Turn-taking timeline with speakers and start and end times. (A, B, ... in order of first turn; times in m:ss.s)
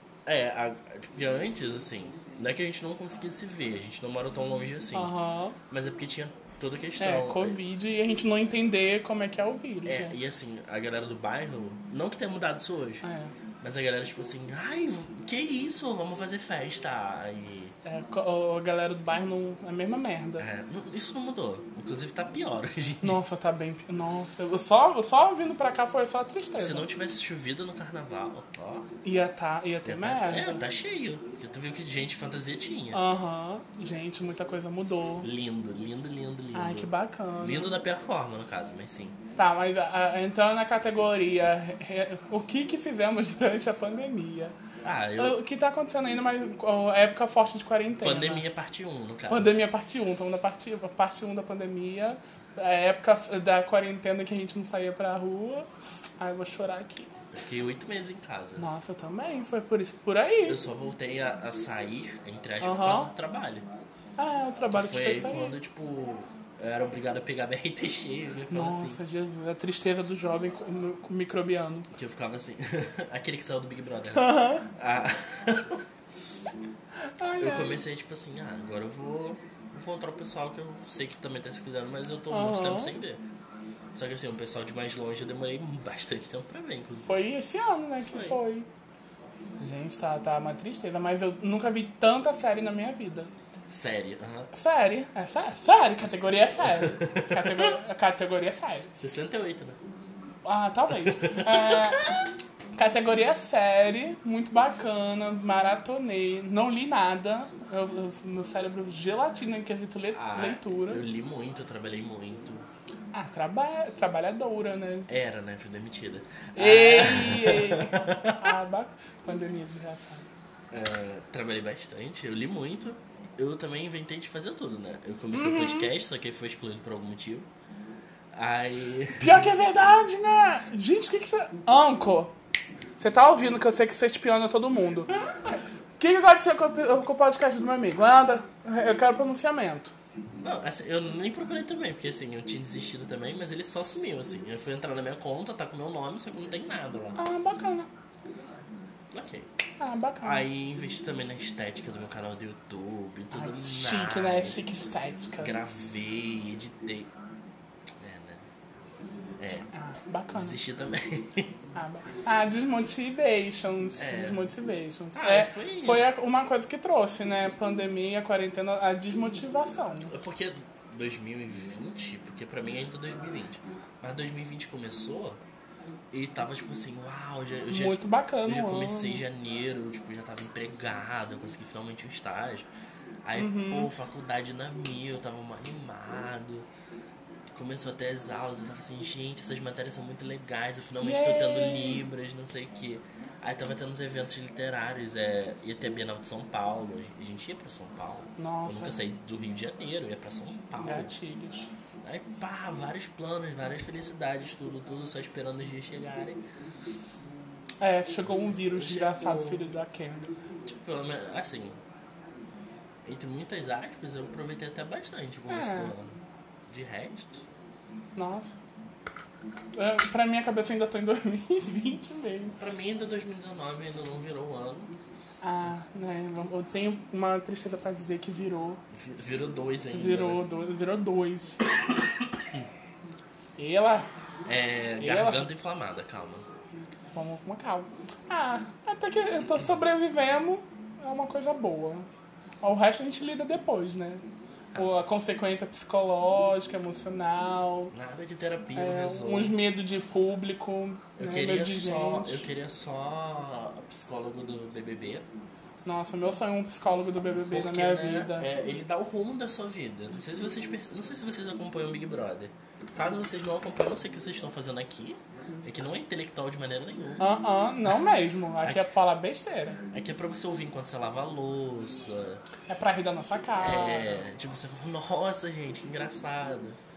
0:00.3-0:05.1 A
0:04.9-0:05.6 B
0:05.7-0:07.6 A
0:07.0-0:10.2 B
0:09.9-0:13.0 A
0:13.0-0:13.3 B
0:13.6-0:17.7 A
0:17.8-0:20.4 B
0:20.4-0:23.2 A
0:23.0-0:26.9 B
0:26.6-0:28.9 A
0:29.0-0:30.6 B
0:29.8-0:33.0 A
0:32.9-0:35.3 B
0:34.9-0:39.2 A
0:36.5-0:37.8 B
0:39.4-0:44.6 B
0:44.8-0:45.4 A
0:45.2-0:48.4 B
0:48.0-0:49.6 A
0:49.3-0:55.7 B
0:56.2-0:57.1 B
0:57.3-0:58.7 A
0:58.6-1:00.6 B
1:00.4-1:03.7 A
1:02.6-1:03.1 B
1:04.2-1:05.6 B
1:04.7-1:09.0 A
1:08.5-1:11.9 B
1:11.9-1:15.8 A
1:14.1-1:14.7 B
1:17.2-1:17.8 B
1:17.4-1:23.2 A
1:22.3-1:22.9 B
1:24.0-1:27.1 A
1:27.0-1:28.7 B
1:28.0-1:28.4 A
1:29.6-1:33.3 B
1:33.7-1:34.5 A
1:34.5-1:38.9 B
1:36.0-1:37.8 A
1:39.0-1:39.8 A
1:40.4-1:51.0 B
1:40.9-1:42.0 A
1:50.1-1:52.6 A
1:53.1-1:55.1 B
1:55.1-1:58.5 A
1:56.6-2:00.2 B
2:00.7-2:07.5 A
2:05.3-2:05.9 B
2:08.3-2:09.5 A
2:09.2-2:12.3 B
2:13.0-2:15.1 B
2:16.0-2:19.9 B
2:20.4-2:27.2 A
2:27.2-2:27.9 B
2:29.1-2:29.5 A
2:29.8-2:30.5 B
2:30.2-2:34.6 A
2:33.3-2:35.5 B
2:35.4-2:37.1 A
2:38.0-2:38.4 A
2:39.4-2:39.7 A
2:39.7-2:40.6 B
2:40.3-2:41.5 A
2:41.8-2:50.1 B
2:44.0-2:44.5 A
2:45.2-2:46.1 A
2:50.1-2:55.4 A
2:56.1-3:02.7 A
2:57.7-2:59.2 B
3:03.2-3:06.7 A
3:03.3-3:03.9 B
3:07.5-3:21.1 A
3:11.0-3:12.0 B
3:18.4-3:19.0 B
3:20.8-3:21.7 B
3:22.0-3:26.4 A
3:27.8-3:30.3 B
3:28.3-3:29.7 A
3:30.7-3:31.8 A
3:33.0-3:36.2 A
3:35.5-3:35.9 B
3:36.7-3:37.4 A
3:38.2-3:38.5 B
3:39.7-3:42.6 B
3:42.6-3:44.9 A
3:45.4-3:48.8 B
3:48.9-3:50.4 A
3:49.9-3:51.6 B
3:53.6-3:54.1 B
3:54.5-3:56.4 A
3:55.0-3:55.5 B
3:57.1-4:02.1 B
4:02.6-4:04.2 B
4:04.8-4:07.9 B
4:07.9-4:09.6 A
4:08.8-4:12.5 B
4:11.2-4:15.3 A
4:15.8-4:18.5 B
4:17.4-4:27.2 A
4:27.2-4:29.8 B
4:28.6-4:28.9 A
4:29.9-4:32.4 A
4:32.7-4:34.2 B
4:33.6-4:36.8 A